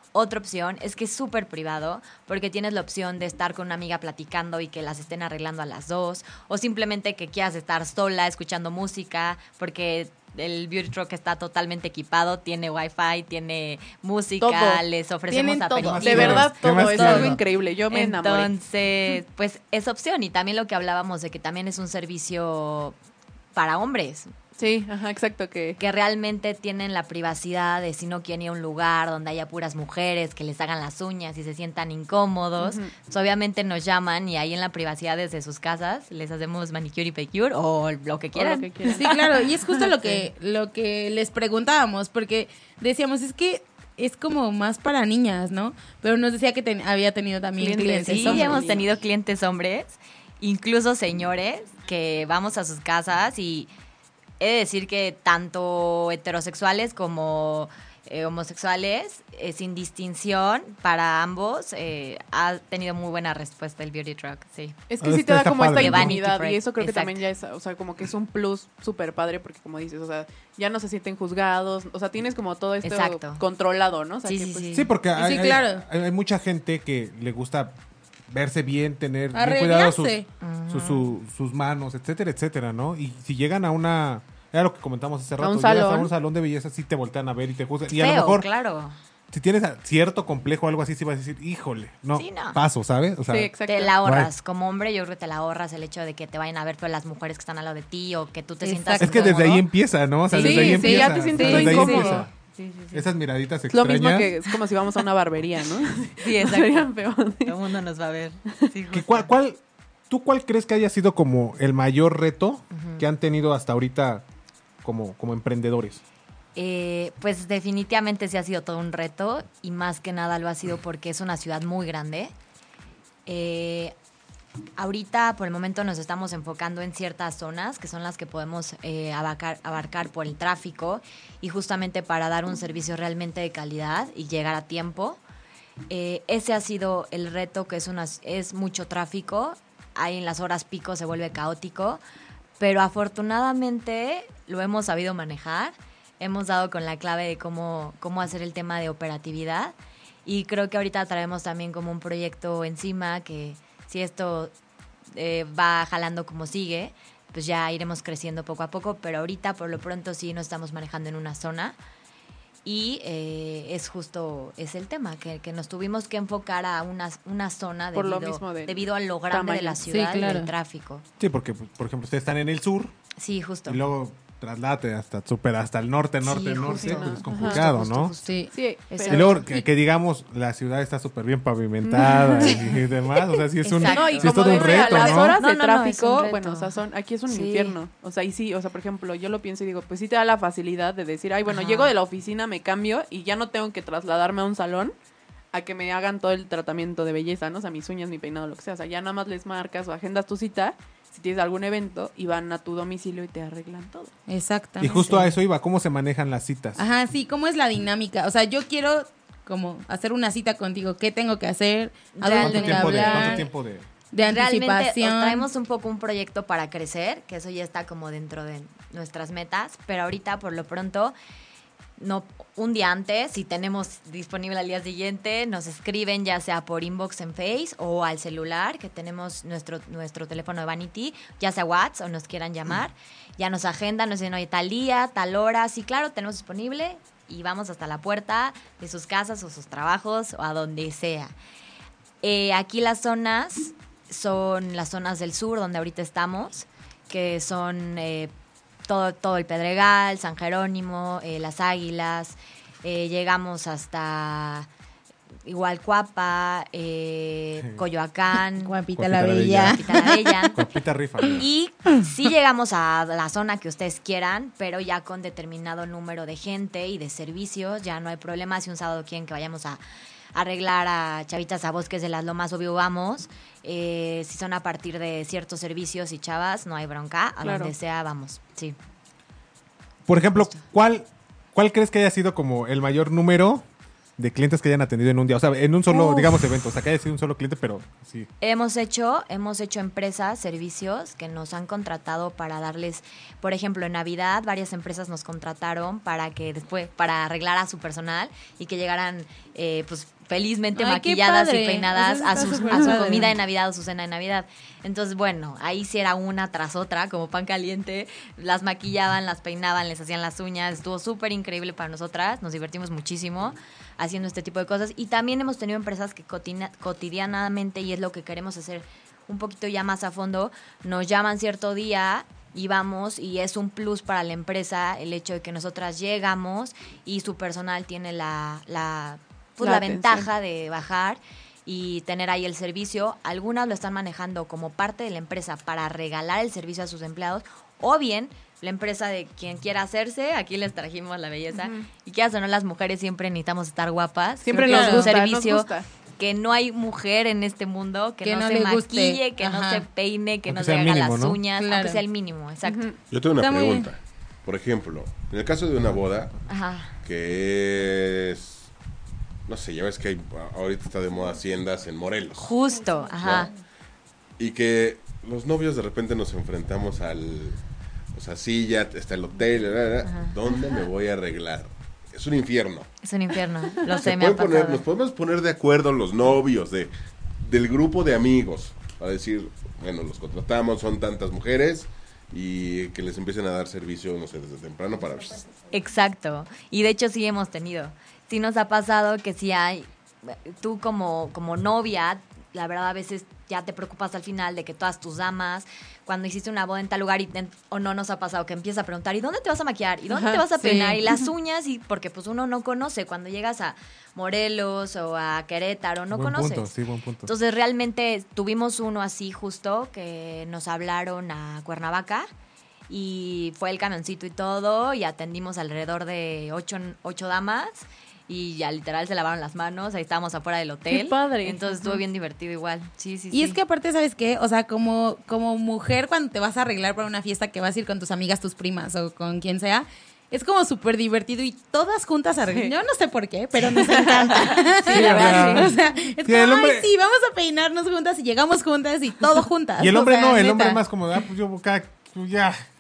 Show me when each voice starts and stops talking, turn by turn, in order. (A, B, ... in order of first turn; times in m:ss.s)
0:00.1-0:23.0 A
0:14.4-0:14.8 B
0:15.3-0:16.4 C
0:15.8-0:17.4 D
0:16.0-0:18.5 B
0:23.6-0:24.3 A
0:24.6-0:25.8 B
0:25.8-0:39.4 A
0:32.6-0:32.9 B
0:38.4-0:39.2 B
0:38.9-0:48.7 C
0:47.6-0:48.9 B
0:48.0-0:53.7 A
0:54.4-1:04.8 A
1:04.9-1:14.8 B
1:05.0-1:06.2 D
1:05.8-1:07.2 A
1:12.8-1:13.4 A
1:14.2-1:14.9 A
1:14.7-1:17.8 D
1:15.2-1:15.8 C
1:18.3-1:20.2 D
1:19.3-1:20.3 C
1:20.4-1:21.1 A
1:20.7-1:28.5 D
1:25.4-1:26.1 B
1:27.9-1:29.0 A
1:29.3-1:34.3 D
1:32.2-1:32.6 A
1:33.3-1:34.0 B
1:33.7-1:39.6 A
1:38.6-1:39.6 C
1:39.0-1:42.3 D
1:40.3-1:42.3 B
1:40.4-1:42.2 C
1:40.4-1:43.1 A
1:42.9-1:44.3 D
1:43.7-1:47.6 B
1:46.2-1:46.9 A
1:47.4-1:49.3 A
1:48.9-1:54.2 D
1:52.7-1:53.0 A
1:54.8-1:56.0 D
1:56.6-2:02.3 A
2:03.3-2:03.9 A
2:04.8-2:15.2 A
2:15.9-2:22.0 A
2:22.6-2:34.5 A
2:35.1-2:41.8 A
2:42.6-2:51.0 A
2:47.9-2:49.8 B
2:49.8-2:50.5 C
2:51.2-2:52.9 D
2:53.2-2:53.8 A
2:53.7-2:58.2 D
2:56.2-2:59.6 A
2:56.7-2:57.6 B
2:58.2-2:59.2 C
2:58.5-2:59.4 B
2:59.1-3:05.4 D
3:02.4-3:02.7 A
3:03.6-3:07.8 A
3:03.8-3:14.9 B
3:11.5-3:11.9 A
3:15.5-3:24.1 B
3:24.3-3:25.3 C
3:24.8-3:26.9 D
3:26.8-3:33.5 C
3:32.2-3:33.5 A
3:32.4-3:33.9 D
3:34.1-3:35.5 C
3:34.2-3:41.2 A
3:42.0-4:01.3 A
4:02.2-4:08.3 A
4:08.9-4:14.7 A
4:15.5-4:18.8 A
4:18.6-4:20.5 C
4:19.0-4:19.9 D
4:19.7-4:20.6 A
4:20.5-4:21.5 D
4:21.4-4:29.8 A
4:30.4-4:38.8 A
4:37.4-4:37.7 B
4:40.1-4:43.6 D
4:44.2-4:48.3 D
4:48.4-5:52.9 A
5:00.8-5:03.3 C
5:02.7-5:03.2 B
5:29.6-5:30.3 B
5:41.5-5:41.9 B
5:44.4-5:45.9 B
5:44.6-5:45.1 C
5:48.2-5:49.8 C
5:50.5-5:51.4 D
5:51.6-5:52.0 C
5:52.6-5:53.0 B
5:53.1-5:56.4 E
5:53.4-5:53.9 C
5:56.5-5:56.9 A
5:57.0-5:58.7 E
5:59.5-6:02.5 E
6:02.4-6:03.5 A
6:03.2-6:03.5 E
6:04.4-6:07.6 E
6:08.1-6:12.9 E
6:10.0-6:10.3 A
6:13.0-6:14.8 A
6:13.9-6:25.5 E
6:25.7-6:46.7 A
6:40.1-6:40.4 B
6:40.6-6:41.0 C
6:46.1-6:47.3 D
6:47.2-6:52.3 A
6:52.9-7:03.6 A
7:00.9-7:02.0 B
7:03.3-7:20.8 C
7:12.5-7:12.7 B
7:13.9-7:14.4 B
7:14.9-7:16.9 D
7:14.9-7:15.7 A
7:15.2-7:15.6 B
7:19.8-7:22.6 D